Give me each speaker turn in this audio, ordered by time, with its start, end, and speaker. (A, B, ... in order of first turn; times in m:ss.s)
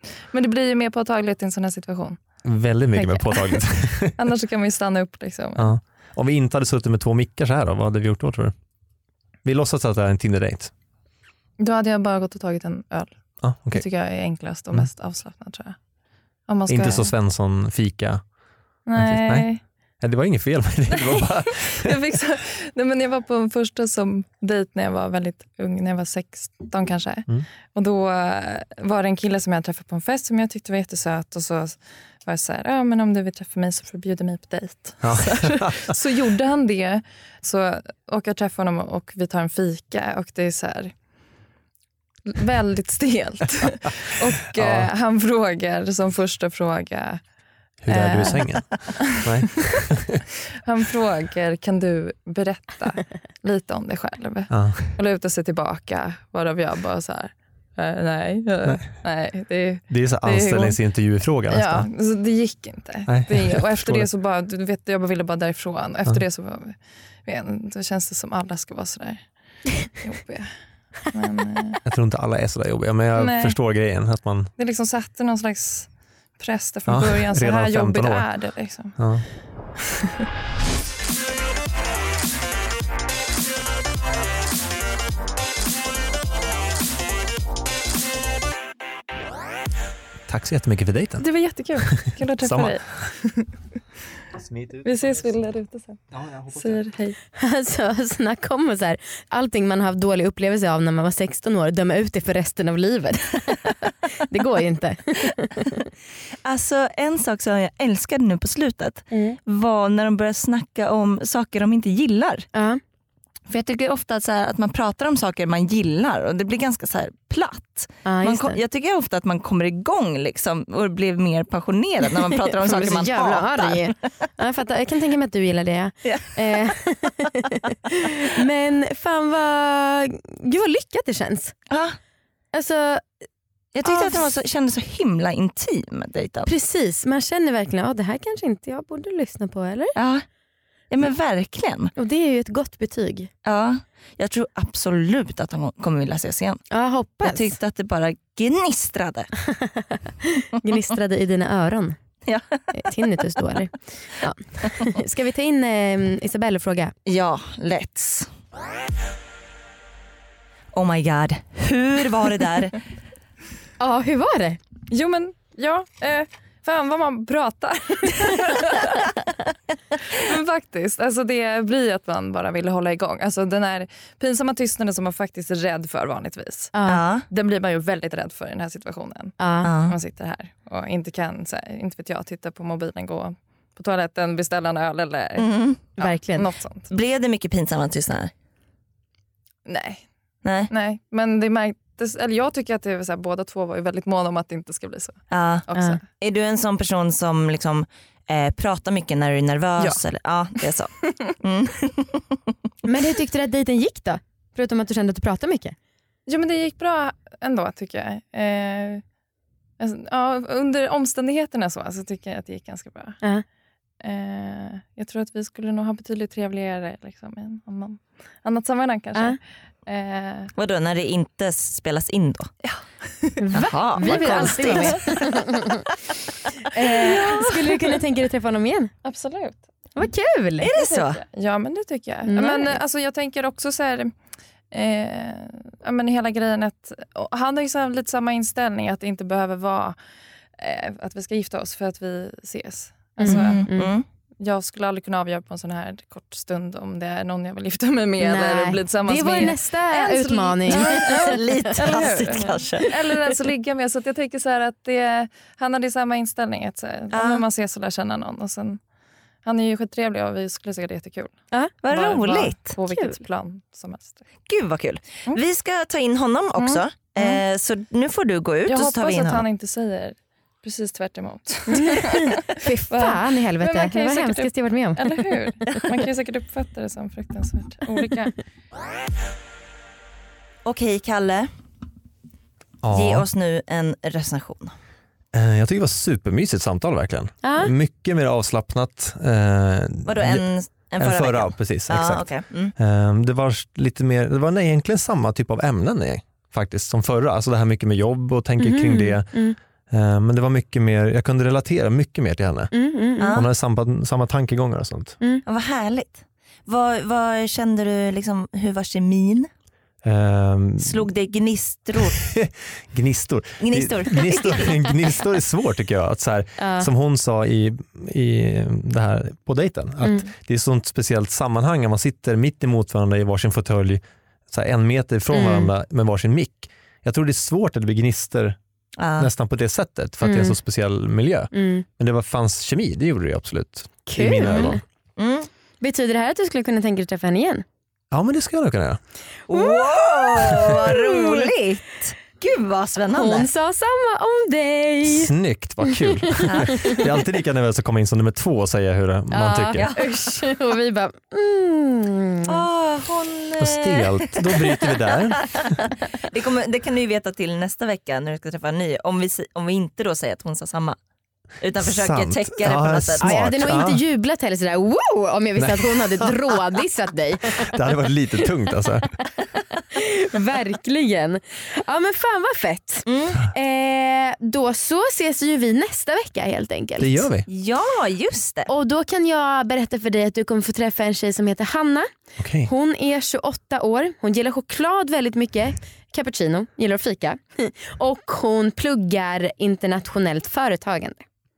0:00.3-0:02.2 A
0:02.4-0:04.1 B
0:02.9-0:05.7 A
0:05.6-0:08.5 B
0:09.4-0:10.7 B
0:11.6-0:15.8 A
0:13.4-0:13.8 B
0:16.5-0:17.1 A
0:16.7-0:18.2 B
0:18.9-0:19.6 A
0:19.0-0:22.0 B
0:20.9-0:40.9 A
0:35.0-0:35.7 B
0:42.3-0:47.2 A
0:44.5-0:44.9 B
0:47.8-0:50.2 B
0:47.9-0:49.3 A
0:50.6-1:00.8 A
0:54.5-0:54.9 B
0:59.9-1:01.9 B
1:01.5-1:11.8 A
1:03.1-1:04.1 B
1:11.8-1:14.5 B
1:13.1-1:13.6 A
1:14.6-1:19.0 A
1:16.9-1:18.3 B
1:18.9-1:19.2 B
1:30.3-1:32.8 B
1:31.2-1:33.5 A
1:34.4-1:35.1 B
1:34.8-1:37.2 A
1:36.1-1:36.8 B
1:37.3-1:45.7 C
1:46.4-1:52.4 D
1:49.1-1:49.4 C
1:52.5-1:52.8 C
1:53.5-2:03.9 D
1:58.0-1:58.6 C
2:02.5-2:11.5 C
2:06.0-2:06.7 D
2:11.7-2:12.0 D
2:12.5-2:13.1 C
2:13.7-2:16.5 D
2:13.8-2:14.2 C
2:16.4-2:19.9 C
2:20.0-2:20.2 D
2:20.9-2:21.9 D
2:22.0-2:23.3 C
2:23.4-2:26.6 D
2:26.7-2:27.5 C
2:27.2-2:29.3 D
2:29.6-2:32.0 C
2:32.2-2:32.6 D
2:32.7-2:36.9 C
2:37.0-2:38.3 D
2:40.7-2:42.8 D
2:43.8-2:44.6 C
2:44.9-2:49.0 A
2:50.1-2:56.7 A
2:56.7-2:57.0 C
2:56.8-2:57.2 D
2:57.3-3:06.9 A
2:59.4-2:59.7 C
2:59.6-3:00.0 D
3:05.4-3:05.8 D
3:06.0-3:06.5 C
3:06.9-3:08.3 D
3:09.6-3:10.0 A
3:10.4-3:10.7 D
3:10.7-3:16.0 A
3:15.3-3:15.6 D
3:15.7-3:16.0 C
3:16.2-3:22.2 D
3:22.8-3:25.7 C
3:26.3-3:29.0 A
3:29.8-3:33.2 A
3:34.0-3:40.5 A
3:40.5-3:42.5 D
3:43.4-3:45.8 C
3:43.5-3:45.2 D
3:44.0-3:45.0 A
3:46.7-3:48.9 C
3:47.1-3:47.5 A
3:49.0-3:49.6 A
3:50.0-3:50.7 C
3:50.6-3:51.2 D
3:50.8-3:54.1 A
3:52.3-3:52.8 C
3:54.7-4:00.0 A
4:00.6-4:03.7 A
4:03.2-4:03.9 C
4:03.2-4:04.0 D
4:04.4-4:18.8 A
4:08.2-4:11.4 C
4:10.7-4:13.0 D
4:17.1-4:17.4 D
4:19.4-4:24.2 A
4:21.8-4:22.8 D
4:22.9-4:23.2 C
4:24.5-4:29.4 D
4:26.6-4:27.4 A
4:28.7-4:38.3 A
4:31.7-4:35.1 C
4:40.6-4:41.5 D
4:42.8-4:43.2 B
4:42.9-4:44.7 D
4:45.3-4:50.4 B
4:47.4-4:47.7 C
4:50.0-4:52.7 D
4:51.0-5:02.7 B
4:58.6-4:59.6 C
5:02.7-5:03.4 C
5:03.2-5:03.5 D
5:03.3-5:05.2 B
5:05.4-5:09.5 D
5:10.0-5:11.1 B
5:10.8-5:12.2 D
5:12.0-5:28.6 B
5:13.6-5:14.9 D
5:16.6-5:16.9 C
5:25.3-5:25.7 C
5:29.0-5:29.3 D
5:29.2-5:34.8 B
5:30.2-5:30.6 C
5:31.5-5:31.8 C
5:34.1-5:34.8 C
5:34.5-5:35.5 D
5:35.8-5:37.6 C
5:38.1-5:39.0 B
5:39.5-5:43.5 D
5:39.5-5:39.8 C
5:40.9-5:41.4 C
5:43.1-5:45.3 C
5:45.0-5:49.8 B
5:46.4-5:47.0 C
5:49.3-5:52.6 C
5:49.8-5:50.0 D
5:52.5-6:01.0 D
5:53.6-5:55.7 B
6:01.6-6:03.3 D
6:01.8-6:04.0 B
6:03.2-6:07.8 C
6:05.6-6:06.3 B
6:07.6-6:09.1 B
6:09.9-6:17.3 C
6:13.0-6:13.4 D
6:17.0-6:17.5 B
6:17.5-6:18.7 D
6:18.7-6:22.1 C
6:22.4-6:22.7 B
6:22.6-6:31.2 C